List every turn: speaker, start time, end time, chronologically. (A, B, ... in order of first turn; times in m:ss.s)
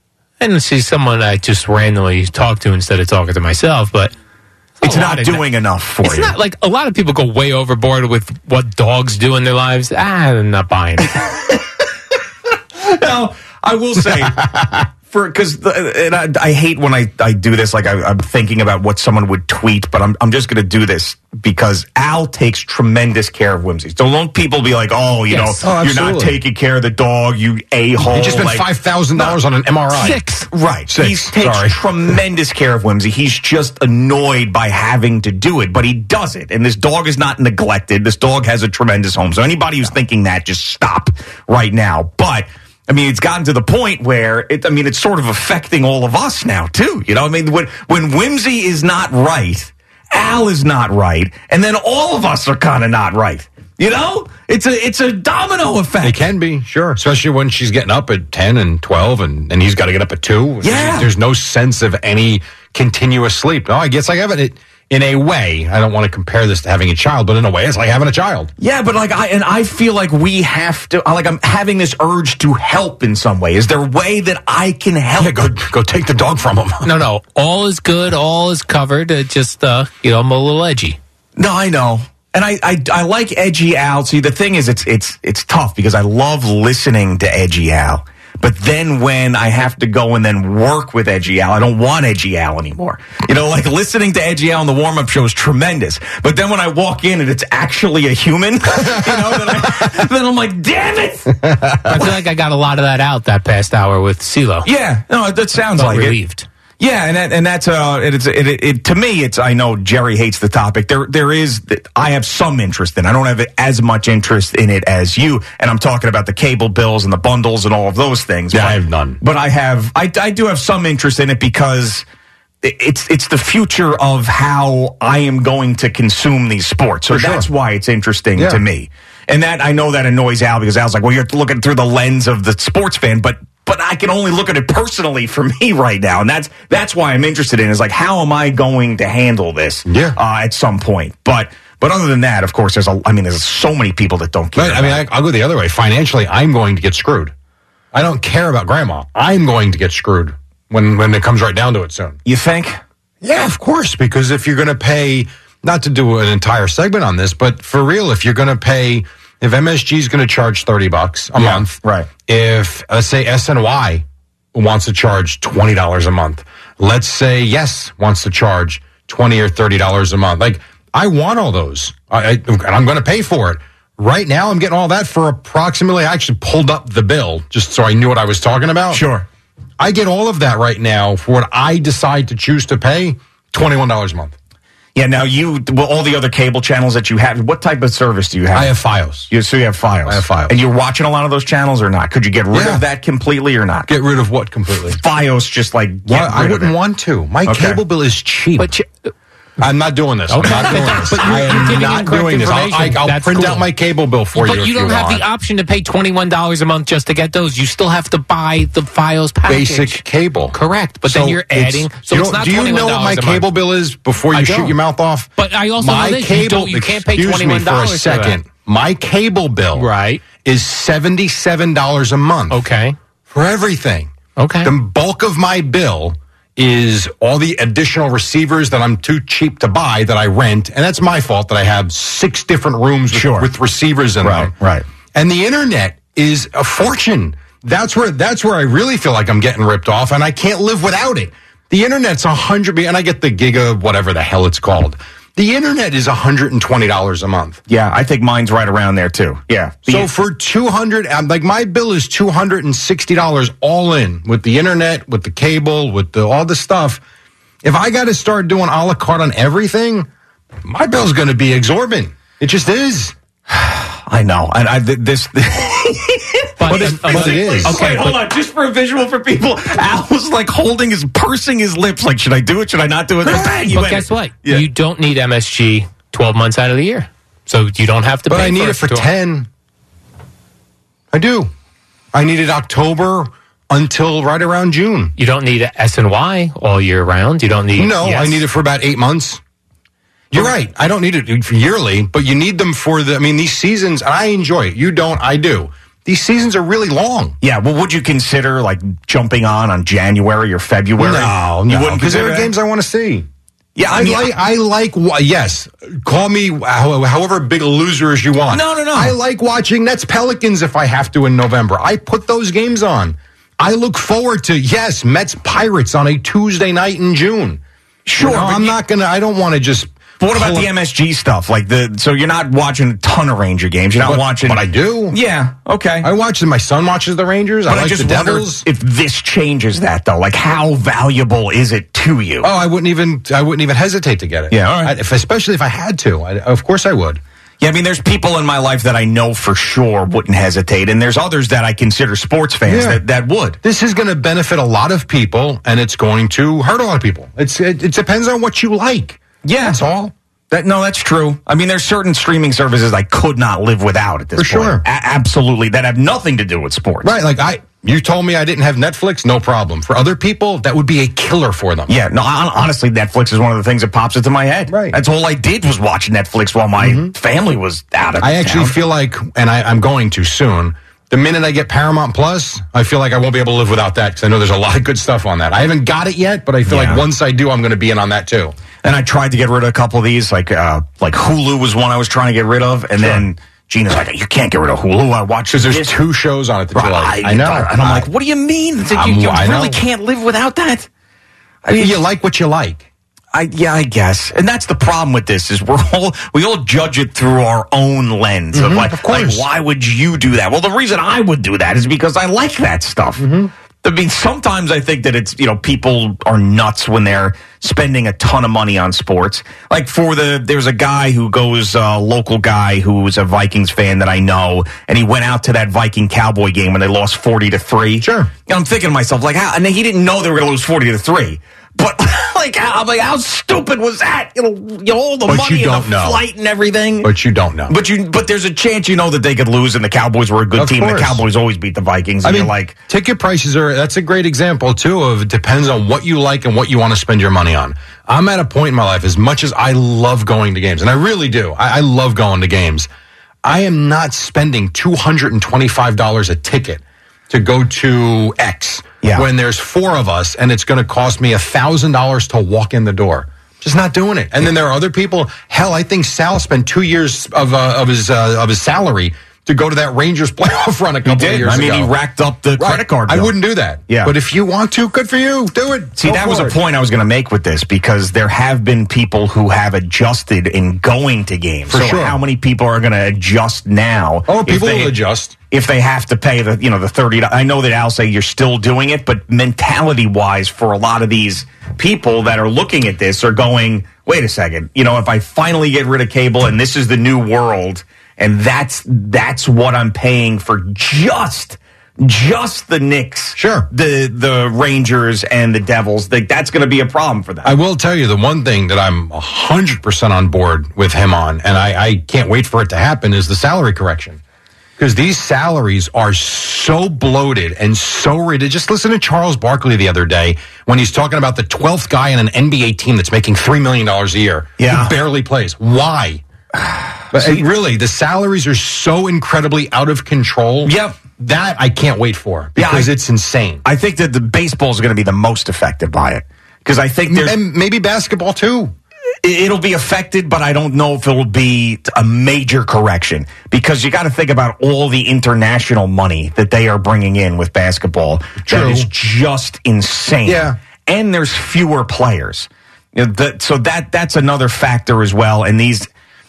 0:00.4-0:04.1 A
0:04.8-0:05.4 A
0:04.8-0:06.3 B
0:06.0-0:11.2 A
0:11.2-0:11.6 B
0:12.8-0:29.4 B
0:25.3-0:25.6 A
0:25.6-0:26.4 C
0:28.0-0:30.2 C
0:29.9-0:30.5 A
0:30.5-0:56.2 B
0:30.9-0:31.8 C
0:56.0-1:08.5 C
1:00.6-1:01.1 B
1:08.6-1:15.5 B
1:15.2-1:16.9 C
1:16.8-1:21.0 A
1:21.4-1:41.4 B
1:41.6-1:42.1 C
1:41.9-1:44.7 A
1:44.6-1:46.2 B
1:45.7-1:46.5 A
1:46.8-2:02.0 B
1:58.5-1:59.2 C
2:02.6-2:25.0 B
2:07.1-2:07.5 C
2:08.4-2:08.6 C
2:19.9-2:20.2 C
2:24.6-2:27.3 C
2:27.9-2:32.2 C
2:32.2-2:32.8 B
2:33.2-2:59.0 C
2:41.4-2:42.1 B
2:58.9-2:59.3 B
2:59.8-3:04.4 C
3:05.0-3:08.8 B
3:08.5-3:09.3 C
3:09.3-3:13.9 B
3:10.0-3:10.6 C
3:12.5-3:12.8 C
3:13.9-3:15.0 C
3:14.9-3:16.8 B
3:16.0-3:18.7 C
3:17.4-3:17.8 B
3:18.6-3:19.1 A
3:19.6-3:25.3 C
3:20.3-3:23.7 A
3:24.3-3:33.5 A
3:29.5-3:42.6 C
3:34.3-3:34.8 A
3:35.4-3:38.4 A
3:39.8-3:40.2 A
3:42.5-3:43.0 A
3:43.3-3:44.1 C
3:44.4-3:44.7 A
3:44.6-3:54.5 C
3:53.1-3:53.5 B
3:54.2-3:54.9 B
3:55.2-4:07.6 C
4:07.7-4:10.1 B
4:09.9-4:17.0 C
4:17.6-4:20.1 C
4:20.6-4:23.2 C
4:23.5-4:34.7 B
4:26.6-4:28.2 A
4:26.7-4:27.8 C
4:33.2-4:39.1 A
4:38.3-4:39.5 C
4:41.1-4:41.5 C
4:42.1-4:45.1 C
4:45.2-4:48.4 A
4:47.8-4:49.4 C
4:50.3-4:57.4 C
4:57.4-5:02.5 B
5:01.0-5:03.3 C
5:03.8-5:04.3 B
5:03.9-5:17.6 C
5:08.5-5:09.2 B
5:18.0-5:18.8 B
5:18.2-5:20.7 C
5:20.2-5:26.1 B
5:24.0-5:25.2 C
5:26.0-5:28.6 C
5:27.7-5:32.5 B
5:32.4-5:37.2 C
5:34.5-5:34.9 B
5:37.6-5:43.6 B
5:42.7-5:43.0 C
5:43.6-5:50.1 C
5:49.4-5:49.8 B
5:50.5-5:57.2 B
5:54.4-5:54.8 C
5:57.0-6:01.9 C
6:01.9-6:08.8 B
6:04.7-6:05.0 C
6:06.8-6:07.1 C
6:08.2-6:18.6 C
6:16.7-6:17.0 B
6:18.8-6:26.0 B
6:23.0-6:23.3 C
6:25.5-6:28.1 C
6:26.7-6:30.9 B
6:28.9-6:29.8 C
6:31.6-6:32.0 B
6:31.8-6:32.9 C
6:33.3-6:43.3 B
6:38.5-6:39.5 C
6:43.2-6:43.5 C
6:43.8-7:07.1 B
6:58.0-6:58.3 C
7:05.3-7:06.2 C
7:07.0-7:07.7 C
7:07.7-7:12.8 B
7:10.6-7:11.2 C
7:12.2-7:22.9 C
7:23.4-7:41.9 C
7:29.0-7:29.3 B
7:41.0-7:43.3 B
7:42.6-7:46.6 C
7:43.9-7:44.1 B
7:46.0-7:55.0 B
7:51.7-7:52.2 C
7:54.3-7:55.4 C
7:55.5-8:17.6 B
8:13.4-8:13.7 C
8:17.4-8:24.2 C
8:24.8-8:36.2 C
8:34.6-8:35.0 B
8:36.7-8:37.4 B
8:37.1-8:43.6 C
8:40.6-8:41.0 B
8:42.6-8:42.9 B
8:43.6-8:47.4 B
8:47.1-8:48.7 C
8:49.2-9:05.9 B
8:58.4-8:58.9 C
9:00.2-9:00.6 C